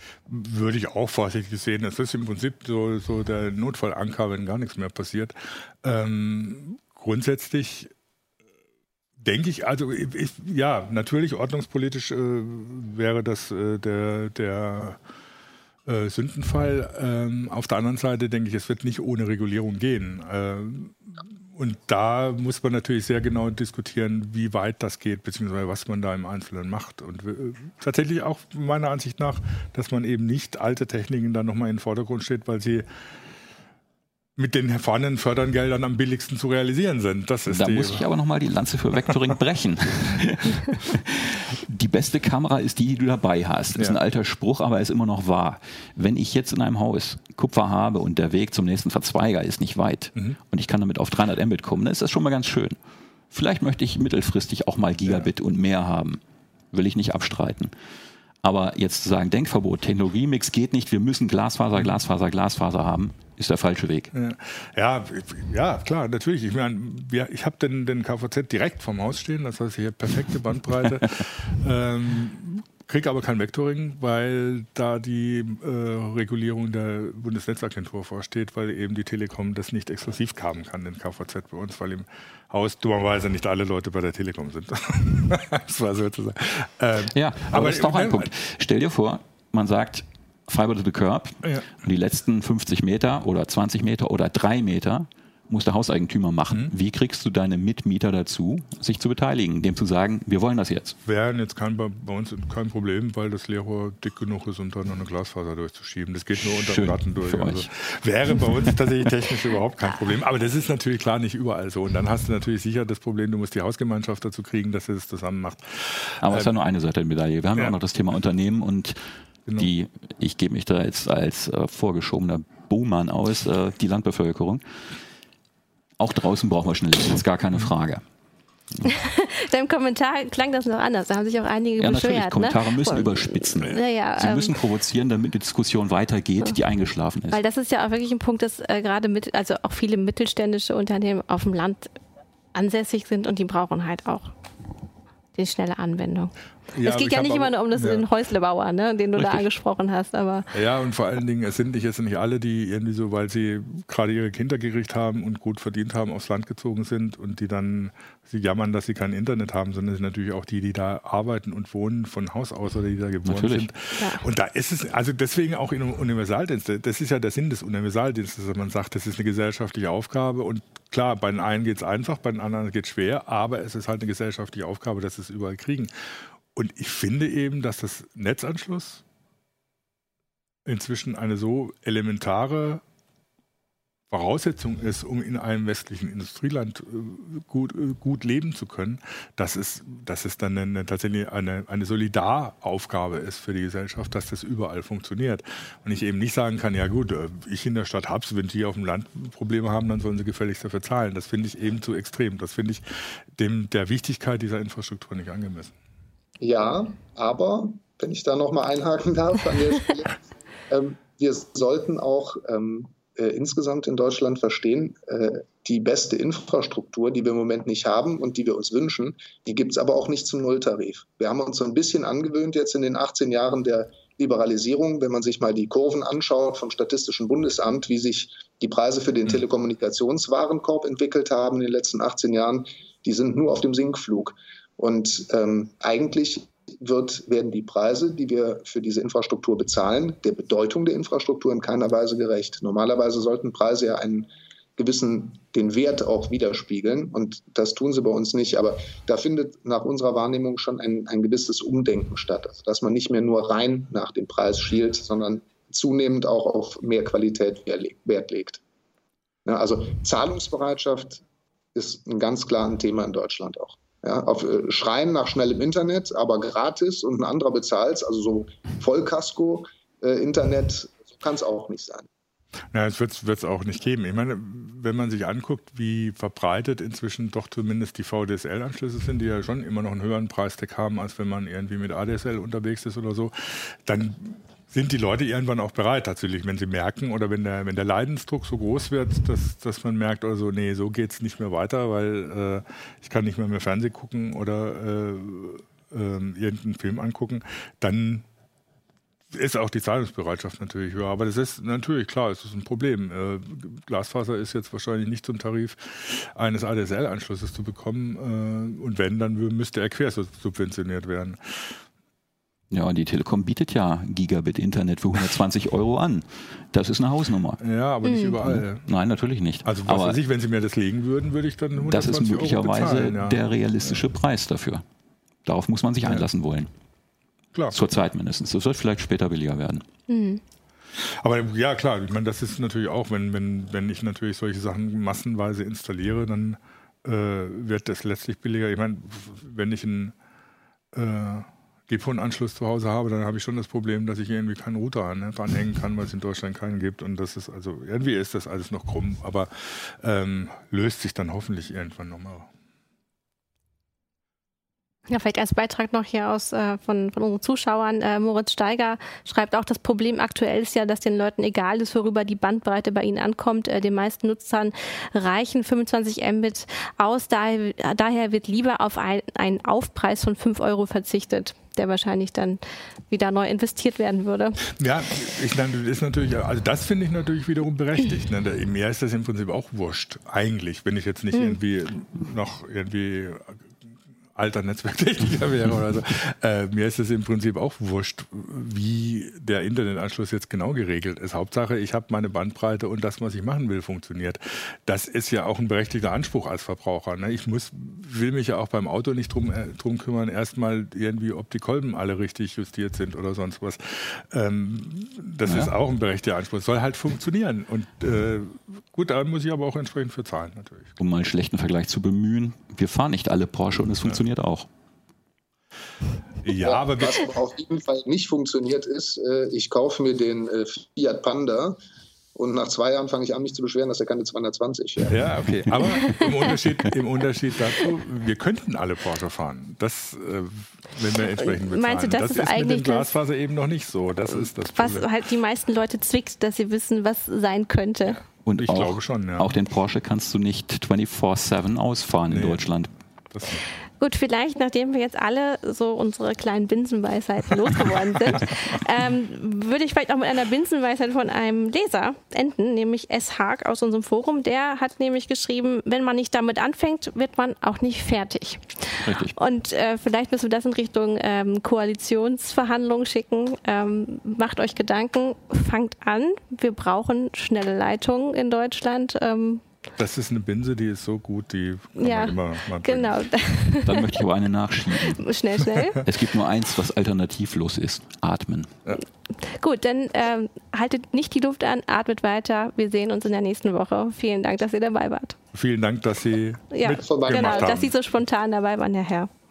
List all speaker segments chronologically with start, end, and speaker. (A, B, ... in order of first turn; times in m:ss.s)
0:00.3-0:07.9 A
0:09.2-0:15.0 A
0:15.9-0:32.8 A
0:34.4-0:38.0 A
0:37.5-0:52.8 B
0:53.3-0:56.2 B
0:56.7-0:57.7 B
0:58.4-1:04.1 B
1:04.1-1:28.3 A
1:27.1-1:41.0 B
1:41.0-1:56.5 A
1:46.4-1:47.7 B
1:56.2-1:59.0 B
1:59.6-2:04.6 B
2:06.0-2:08.0 B
2:08.8-2:14.6 C
2:11.8-2:17.4 B
2:17.3-2:21.9 C
2:22.5-2:24.3 C
2:25.4-2:30.5 C
2:26.7-2:28.0 A
2:29.2-2:29.4 B
2:30.5-2:55.9 A
2:43.2-2:43.7 B
2:56.5-2:59.0 A
3:00.7-3:02.8 A
3:04.1-3:25.8 A
3:26.4-4:18.6 D
4:19.4-4:21.2 D
4:21.8-4:32.1 D
4:32.7-4:58.3 A
4:59.3-5:11.8 A
5:12.7-5:17.6 B
5:17.6-5:18.9 A
5:18.0-5:18.4 C
5:18.4-5:20.2 B
5:19.6-5:24.0 A
5:21.9-5:24.8 B
5:25.4-5:26.7 B
5:26.0-5:26.3 A
5:27.7-5:29.8 B
5:30.1-5:30.4 C
5:31.0-5:40.2 A
5:40.9-5:52.5 A
5:55.1-6:14.6 C
6:14.7-6:23.6 A
6:21.3-6:21.6 C
6:24.4-6:51.0 A
6:45.5-6:45.7 B
6:51.0-6:54.7 B
6:56.4-6:57.3 A
6:56.6-7:01.8 D
7:02.4-7:05.2 D
7:05.1-7:15.1 A
7:11.4-7:13.1 C
7:14.7-7:18.2 C
7:18.4-7:22.9 B
7:18.6-7:19.6 A
7:22.3-7:22.7 A
7:23.3-7:23.6 A
7:24.0-7:49.6 C
7:39.0-7:39.4 B
7:50.0-7:53.1 A
7:52.0-7:54.2 C
7:53.9-7:55.2 B
7:55.0-7:56.0 C
7:56.0-7:58.7 B
7:59.4-8:05.4 C
8:05.5-8:07.9 A
8:06.7-8:09.3 C
8:06.9-8:07.7 D